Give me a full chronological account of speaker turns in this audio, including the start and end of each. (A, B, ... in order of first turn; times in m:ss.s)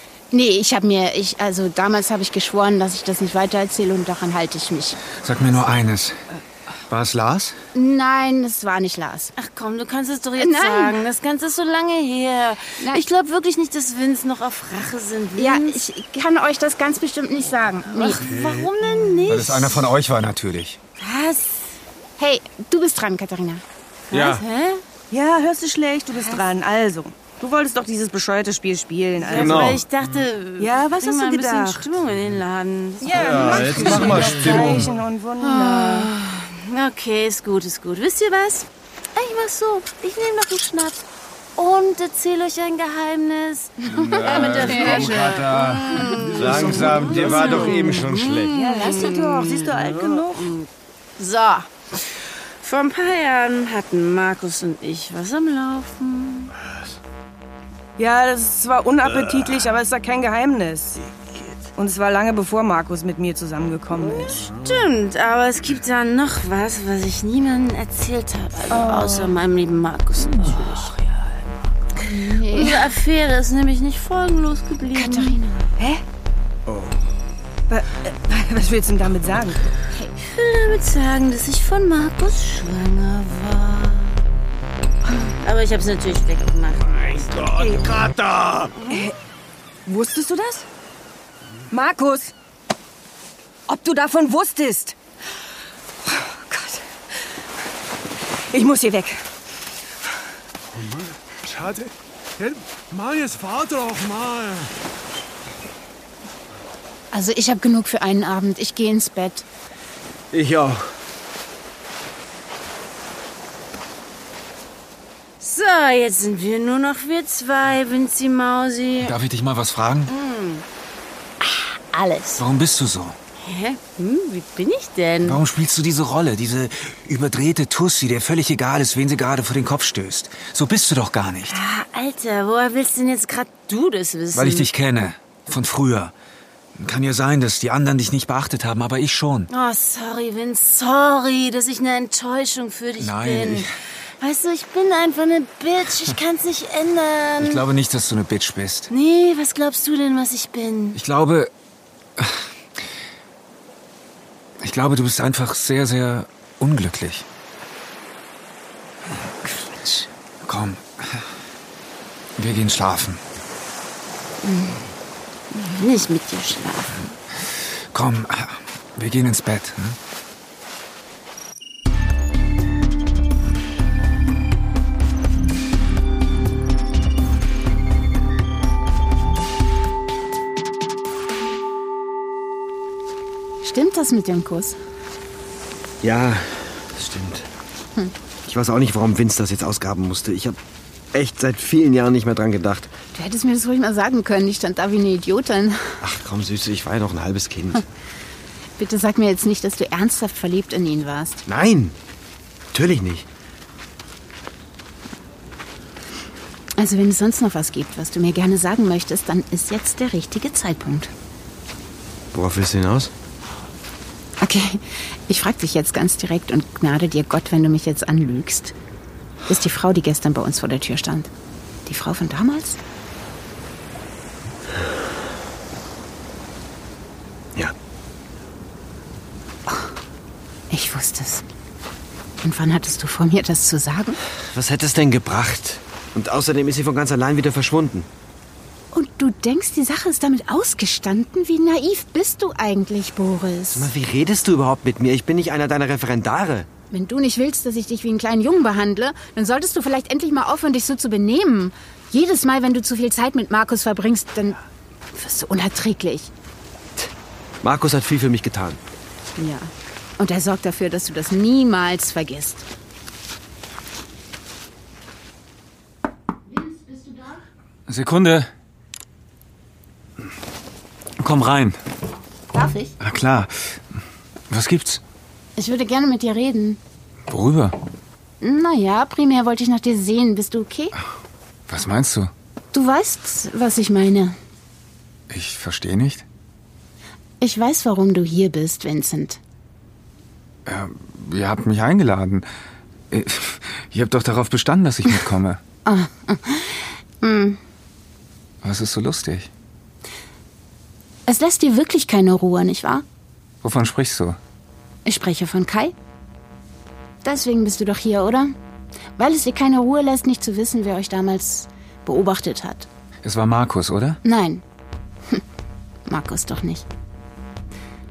0:00.3-0:05.0 A
0:05.2-0:06.2 B
0:06.9-0:07.6 B
0:07.7-0:09.3 A
0:09.4-0:15.8 C
0:10.4-0:11.0 A
0:15.4-0:18.2 A
0:17.9-0:19.9 C
0:18.2-0:18.7 D
0:19.3-0:20.8 B
0:21.0-0:21.7 C
0:22.2-0:23.6 A
0:24.1-0:24.8 C
0:24.1-0:24.4 E
0:25.1-0:29.7 F
0:29.2-0:34.8 C
0:29.3-0:29.8 E
0:30.6-0:31.9 F
0:33.0-0:36.1 F
0:33.1-0:34.9 E
0:35.4-0:41.0 C
0:41.6-0:51.7 C
0:43.9-0:45.3 A
0:43.9-0:48.5 E
0:46.0-0:46.3 A
0:47.5-0:47.7 F
0:48.5-0:50.6 F
0:52.6-0:56.5 C
0:58.0-1:01.0 F
1:01.8-1:04.5 F
1:04.0-1:11.5 C
1:08.7-1:09.3 F
1:12.0-1:12.9 A
1:12.0-1:15.4 C
1:14.9-1:15.7 A
1:15.8-1:16.0 F
1:16.7-1:16.9 D
1:17.7-1:19.7 F
1:20.2-1:24.2 C
1:25.4-1:27.5 C
1:27.3-1:28.7 E
1:27.5-1:27.9 F
1:28.7-1:29.1 C
1:28.9-1:29.2 F
1:29.8-1:30.7 F
1:31.7-1:32.3 F
1:33.7-1:35.0 F
1:36.0-1:36.9 F
1:38.5-1:39.2 F
1:40.7-1:44.7 D
1:47.1-1:49.4 A
1:50.3-1:50.8 E
1:55.4-1:59.2 C
1:59.0-2:00.1 B
2:00.1-2:00.6 C
2:01.4-2:02.4 C
2:02.4-2:03.2 B
2:03.4-2:05.4 C
2:05.2-2:11.6 B
2:11.5-2:14.7 C
2:14.3-2:16.1 B
2:16.8-2:19.5 B
2:19.5-2:27.6 C
2:23.0-2:23.7 B
2:27.4-2:28.9 B
2:28.9-2:31.0 C
2:30.9-2:31.5 B
2:32.2-2:32.4 B
2:34.6-2:37.2 B
2:40.4-2:41.2 B
2:42.4-2:43.2 B
2:44.5-2:44.8 C
2:45.5-2:47.1 C
2:47.9-2:50.0 B
3:03.6-3:04.8 A
3:06.0-3:07.5 E
3:08.4-3:10.6 E
3:11.1-3:12.9 E
3:13.1-3:16.0 A
3:16.0-3:17.8 E
3:18.8-3:21.4 A
3:21.4-3:22.0 E
3:22.7-3:23.3 E
3:26.8-3:31.1 A
3:32.3-3:33.1 E
3:34.4-3:38.7 A
3:39.5-3:41.3 A
3:41.8-3:42.8 A
3:50.7-3:51.4 A
3:52.4-3:54.2 A
3:54.5-3:58.1 E
3:58.9-4:03.9 A
4:03.7-4:06.7 E
4:06.9-4:14.6 A
4:15.1-4:16.3 A
4:17.6-4:18.8 E
4:19.4-4:22.6 A
4:26.5-4:27.4 A
4:27.9-4:28.5 B
4:31.2-4:31.8 B
4:32.5-4:32.9 A
4:33.0-4:33.8 B
4:34.5-4:35.0 B
4:35.6-4:36.8 A
4:37.3-4:37.7 B
4:38.4-4:41.0 A
4:41.7-4:42.3 B
4:42.7-4:44.4 A
4:45.3-4:46.2 B
4:47.4-4:49.4 A
4:50.6-4:52.4 B
4:53.1-4:55.6 B
4:55.8-4:57.6 A
4:58.6-4:59.5 B
5:01.3-5:03.0 A
5:03.6-5:04.4 B
5:05.0-5:05.9 A
5:07.2-5:08.5 A
5:09.2-5:12.9 A
5:13.2-5:14.2 B
5:14.2-5:14.6 A
5:16.1-5:16.8 A